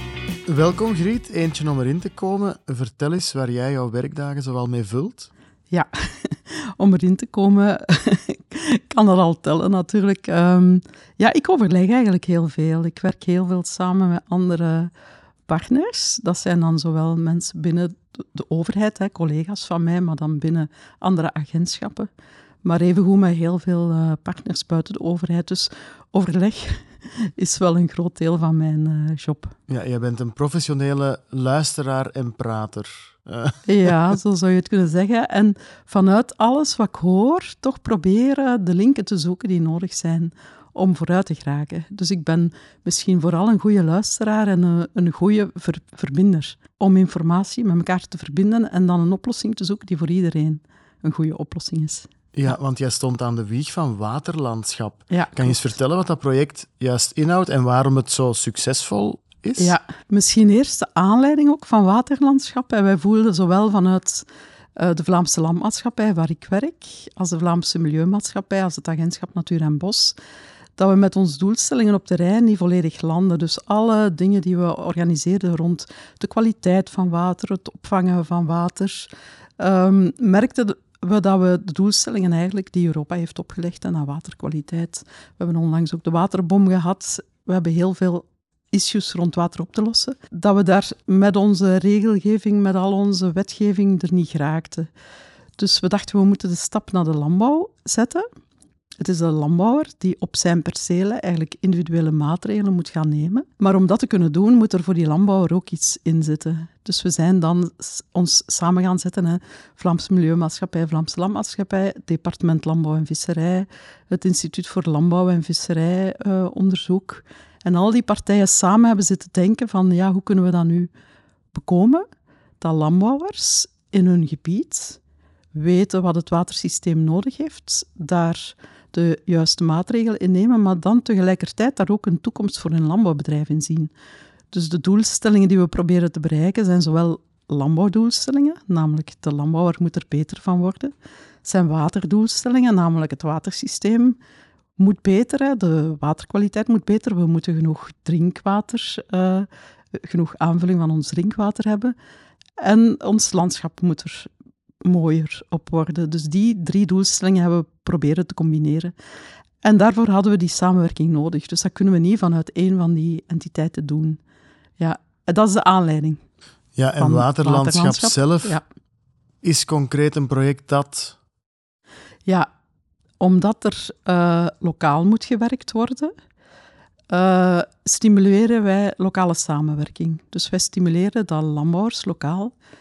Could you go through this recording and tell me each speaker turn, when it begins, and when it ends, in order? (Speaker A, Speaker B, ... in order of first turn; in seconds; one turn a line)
Speaker A: 0.5-5.3
Speaker B: 5.7-14.9
Speaker B: 15.5-22.1
Speaker B: 22.6-29.5
Speaker A: 29.7-33.6
Speaker B: 33.6-52.1
Speaker A: 52.3-59.8
Speaker B: 55.1-55.7
Speaker B: 59.6-64.2
Speaker B: 64.8-70.2
Speaker B: 70.8-94.9
Speaker B: 95.6-98.2
Speaker B: 99.0-120.9
Speaker B: 121.5-122.0
Speaker B: 122.6-125.0
Speaker B: 125.5-133.9
Speaker B: 134.5-144.2
Speaker B: 144.8-151.9
Speaker B: 152.6-154.3
Speaker B: 154.8-158.9
Speaker B: 159.6-164.2
Speaker B: 164.8-166.2
Speaker A: 166.8-168.6
Speaker B: 167.0-168.6
Speaker A: 169.4-171.2
Speaker B: 173.2-176.1
Speaker B: 177.1-182.5